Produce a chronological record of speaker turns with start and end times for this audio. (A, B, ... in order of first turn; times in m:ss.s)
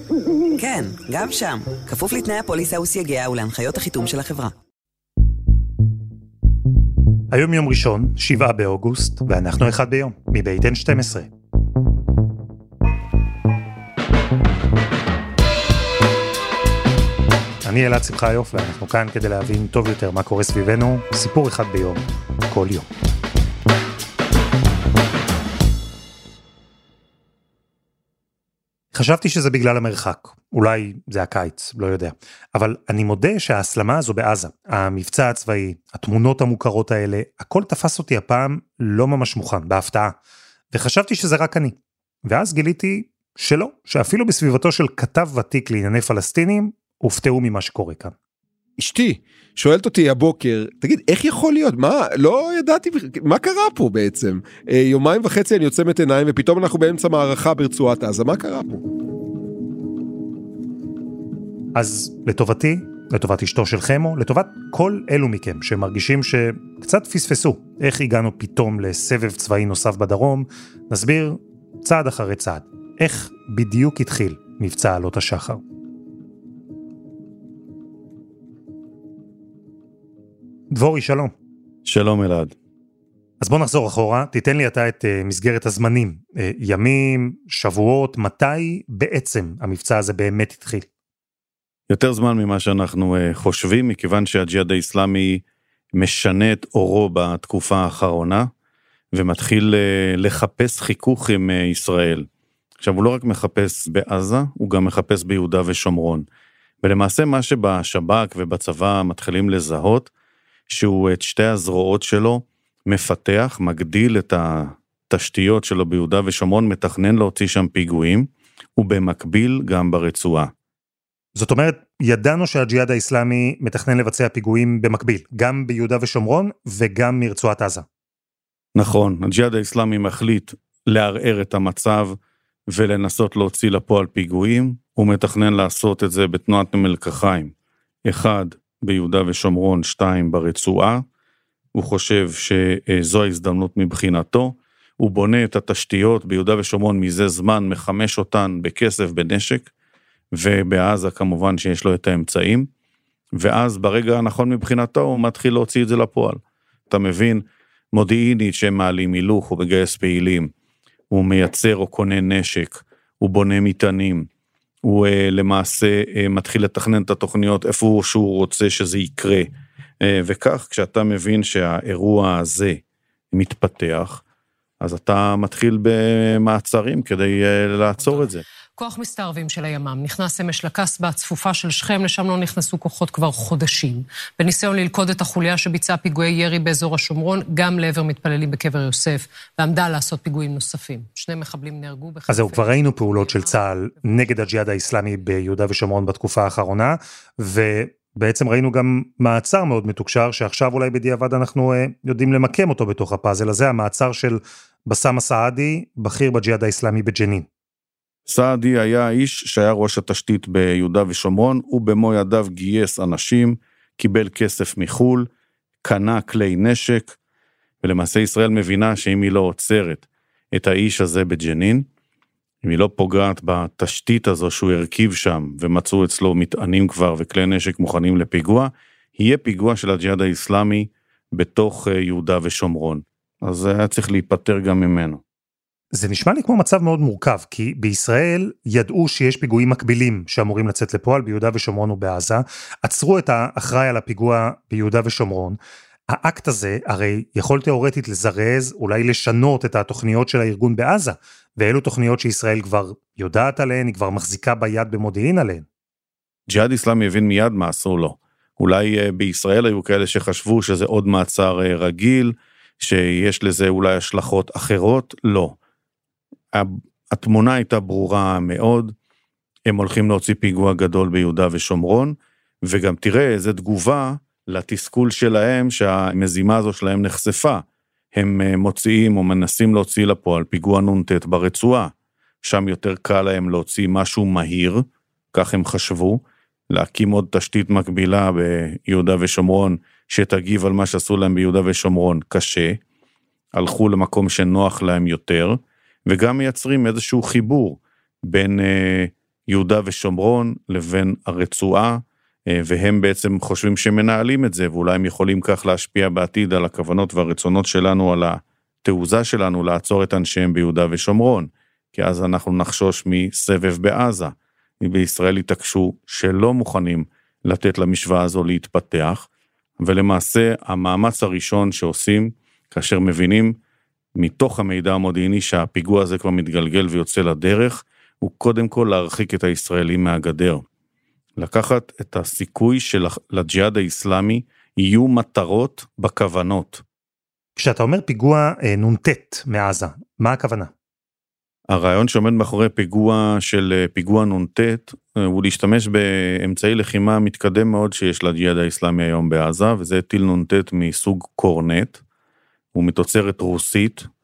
0:00.6-0:04.5 A
0:07.3-0:11.3 B
0:17.6-0:22.9 B
0:28.9-0:40.2 B
0:40.7-0:48.1 B
0:48.8-0:58.8 C
1:01.7-1:15.6 B
1:20.7-1:21.3 B
1:21.8-1:22.5 D
1:23.4-1:30.9 B
1:31.9-1:35.4 D
1:36.0-1:38.5 D
1:39.1-1:42.3 D
1:42.8-1:46.3 D
1:46.8-1:50.1 D
1:50.7-2:00.5 D
2:01.4-2:07.8 B
2:08.7-2:12.2 D
2:12.7-2:17.5 D
2:18.0-2:21.0 D
2:21.7-2:29.7 D
2:30.3-2:32.7 D
2:33.4-2:40.5 D
2:41.1-2:44.3 D
2:44.8-2:52.8 D
2:53.3-2:54.2 D
2:54.8-2:58.4 D
2:58.0-3:14.4 E
3:12.3-3:27.5 B
3:28.3-3:35.3 D
3:35.8-3:37.2 D
3:37.8-3:41.8 D
3:42.6-3:55.2 D
3:55.9-4:05.6 B
4:06.1-4:15.6 B
4:16.5-4:25.6 D
4:26.5-4:28.9 D
4:29.7-4:37.6 D
4:38.1-4:41.9 D
4:42.4-4:52.8 D
4:53.5-5:19.3 D
5:19.8-5:23.6 D
5:24.2-5:30.6 D
5:31.4-5:36.8 D
5:37.6-5:40.7 B
5:41.7-5:52.0 D
5:52.7-5:54.1 D